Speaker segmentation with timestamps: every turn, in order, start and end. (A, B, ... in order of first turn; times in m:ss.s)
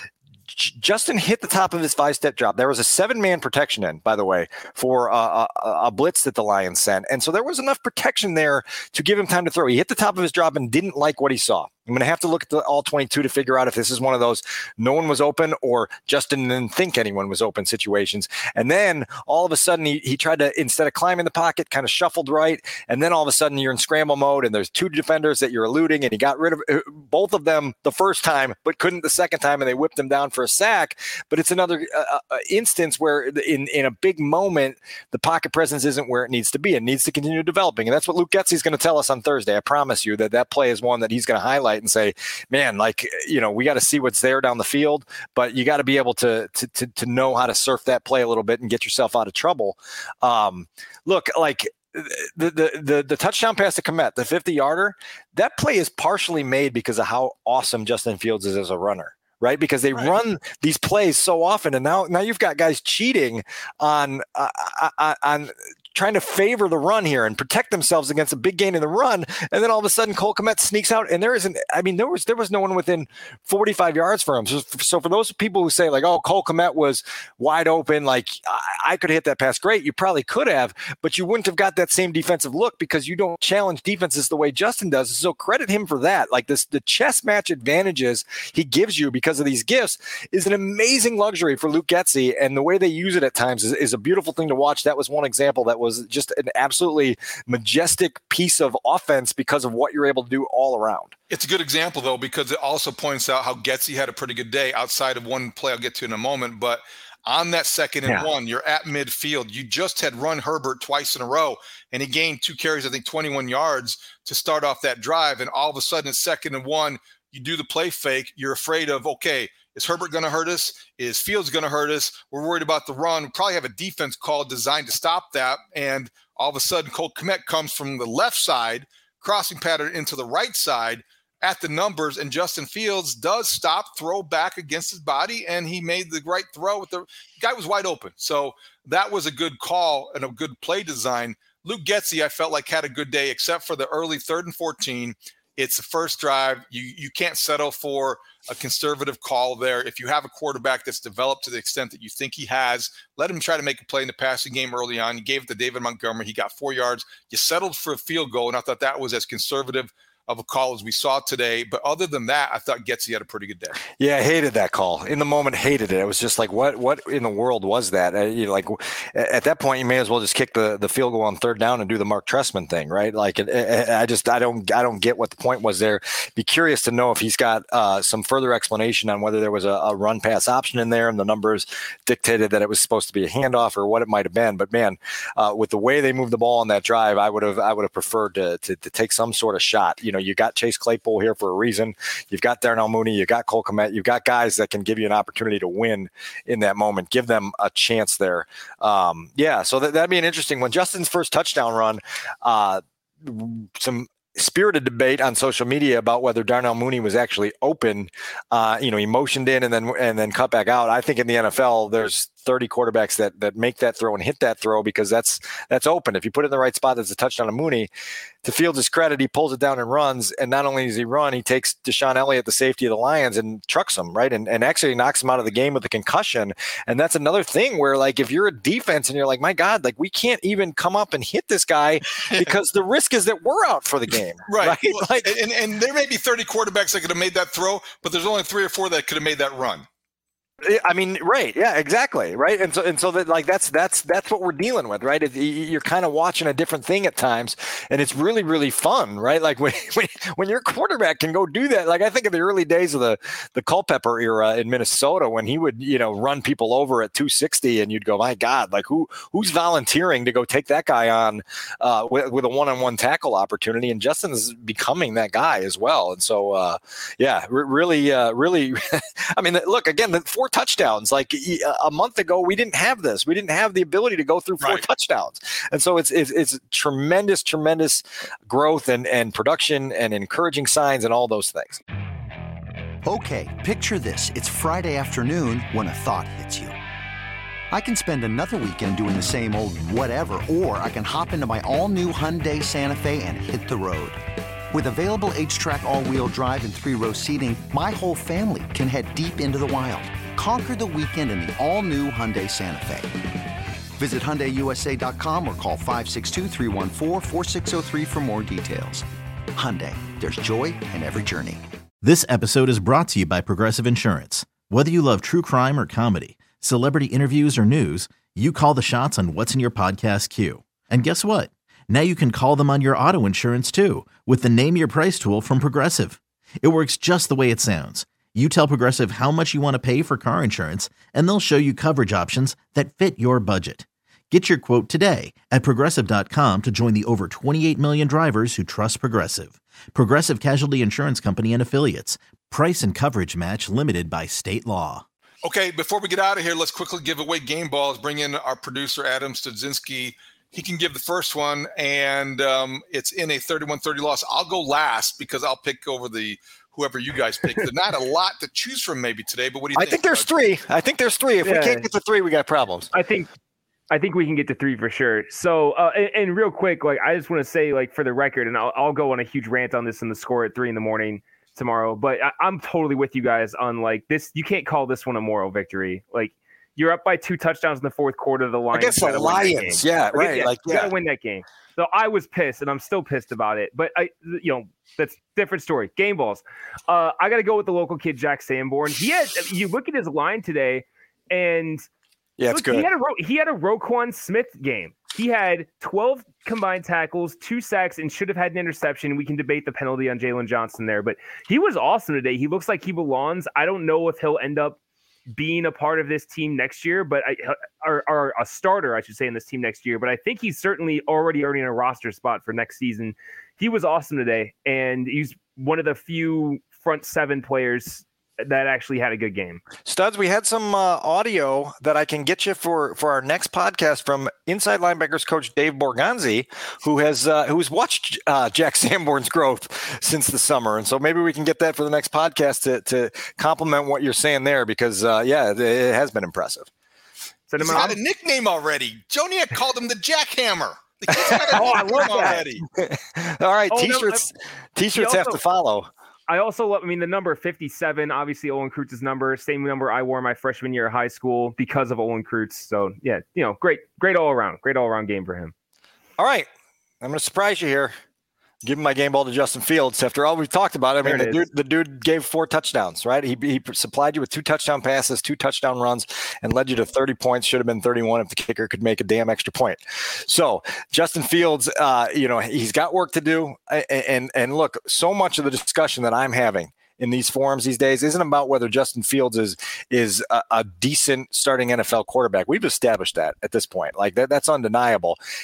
0:00.5-1:41.2 A
1:41.3-2:43.8 B
2:44.0-3:37.9 A
3:38.4-3:55.3 A
3:52.2-3:52.6 B
3:54.5-3:59.9 B
4:00.6-4:41.8 A
4:43.0-4:46.8 C
4:47.7-4:54.2 C
4:54.7-5:03.1 C
5:04.0-5:11.6 C
5:12.0-5:45.0 D
5:45.4-6:00.3 B
5:59.8-6:02.9 A
6:01.4-6:01.9 E
6:02.9-6:03.3 E
6:03.9-6:31.8 E
6:18.7-6:20.9 A
6:32.4-6:32.9 A
6:32.5-6:44.8 E
6:45.3-6:59.6 E
6:59.8-7:16.7 A
7:17.5-7:18.0 E
7:17.6-7:22.6 B
7:17.6-7:18.0 A
7:21.1-7:25.9 A
7:21.5-7:22.4 E
7:23.7-7:24.2 E
7:24.9-7:25.4 E
7:26.3-7:35.5 E
7:36.2-7:36.5 A
7:37.0-7:38.0 A
7:38.6-8:05.2 A
7:41.0-7:41.4 E